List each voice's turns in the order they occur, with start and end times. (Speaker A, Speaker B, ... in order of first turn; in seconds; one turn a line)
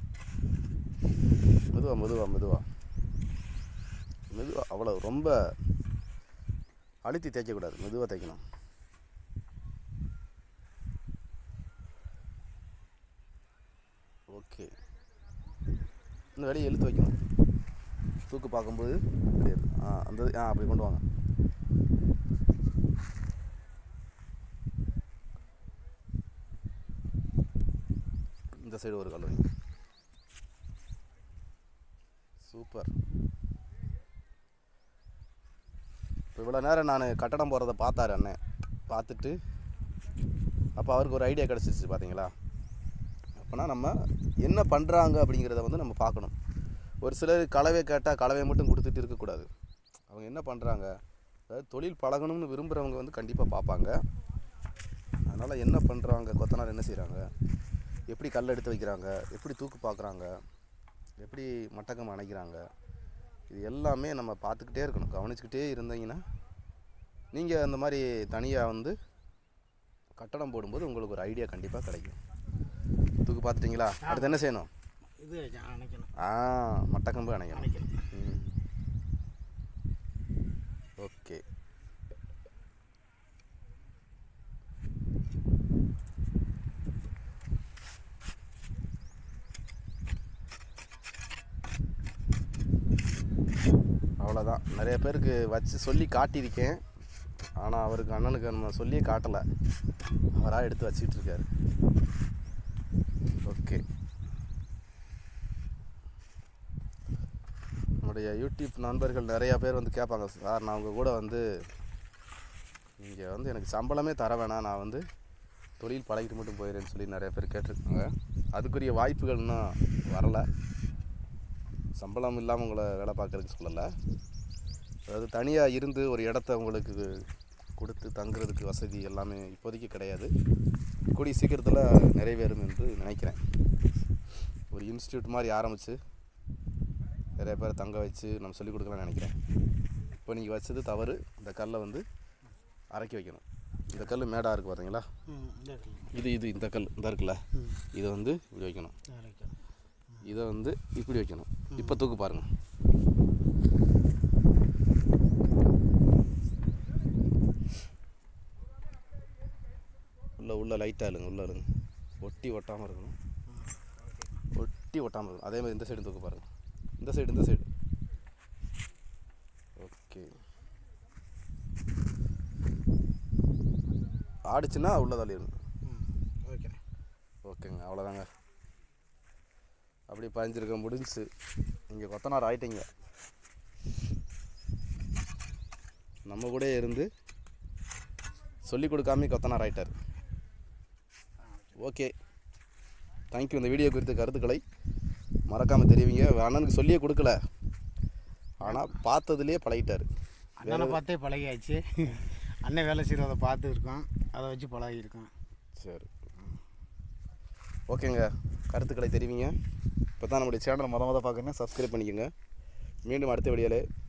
Speaker A: 1.7-2.7
Speaker A: 4.3-5.5
Speaker A: 7.0-8.4
Speaker A: 14.3-14.7
Speaker A: 16.4-17.2
Speaker A: 18.3-21.0
Speaker A: 28.6-29.5
Speaker A: 32.5-32.9
Speaker A: 36.4-39.4
Speaker A: 40.8-42.4
Speaker A: 43.4-46.4
Speaker A: 47.0-49.5
Speaker A: 50.1-51.0
Speaker A: 51.5-54.0
Speaker A: 55.3-57.3
Speaker A: 58.1-60.3
Speaker A: 61.2-62.7
Speaker A: 63.5-66.2
Speaker A: 67.3-69.0
Speaker A: 70.2-72.2
Speaker A: 73.2-74.7
Speaker B: 74.0-74.4
Speaker B: 75.2-76.1
Speaker A: 76.2-78.5
Speaker B: 77.5-78.1
Speaker A: 81.0-81.4
Speaker A: 94.2-96.8
Speaker A: 97.6-99.5
Speaker A: 100.3-101.5
Speaker A: 103.4-103.8
Speaker A: 108.0-111.7
Speaker A: 113.0-115.0
Speaker A: 115.8-120.5
Speaker A: 122.0-123.9
Speaker A: 125.1-130.3
Speaker A: 131.1-133.4
Speaker A: 134.7-136.0
Speaker A: 137.4-139.4
Speaker A: 140.2-142.1
Speaker A: 142.9-145.1
Speaker B: 145.3-146.1
Speaker A: 146.1-148.9
Speaker B: 147.5-147.9
Speaker B: 149.1-149.6
Speaker A: 150.2-152.5
Speaker B: 151.7-152.0
Speaker A: 160.4-161.7
Speaker A: 162.2-163.2
Speaker B: 163.5-164.3
Speaker A: 164.5-166.5
Speaker A: 167.0-167.7
Speaker A: 169.8-170.3
Speaker A: 174.5-175.6
Speaker B: 175.8-176.8
Speaker A: 177.4-178.3
Speaker A: 180.1-181.3
Speaker A: 181.9-182.9
Speaker A: 186.3-187.1
Speaker A: 188.6-189.9
Speaker A: 191.8-192.1
Speaker A: 193.3-194.6
Speaker A: 195.5-197.4
Speaker A: 198.6-200.1
Speaker B: 200.6-205.3
Speaker A: 200.6-201.0
Speaker A: 205.8-206.2
Speaker A: 207.9-209.6
Speaker A: 210.2-212.3
Speaker A: 213.1-213.9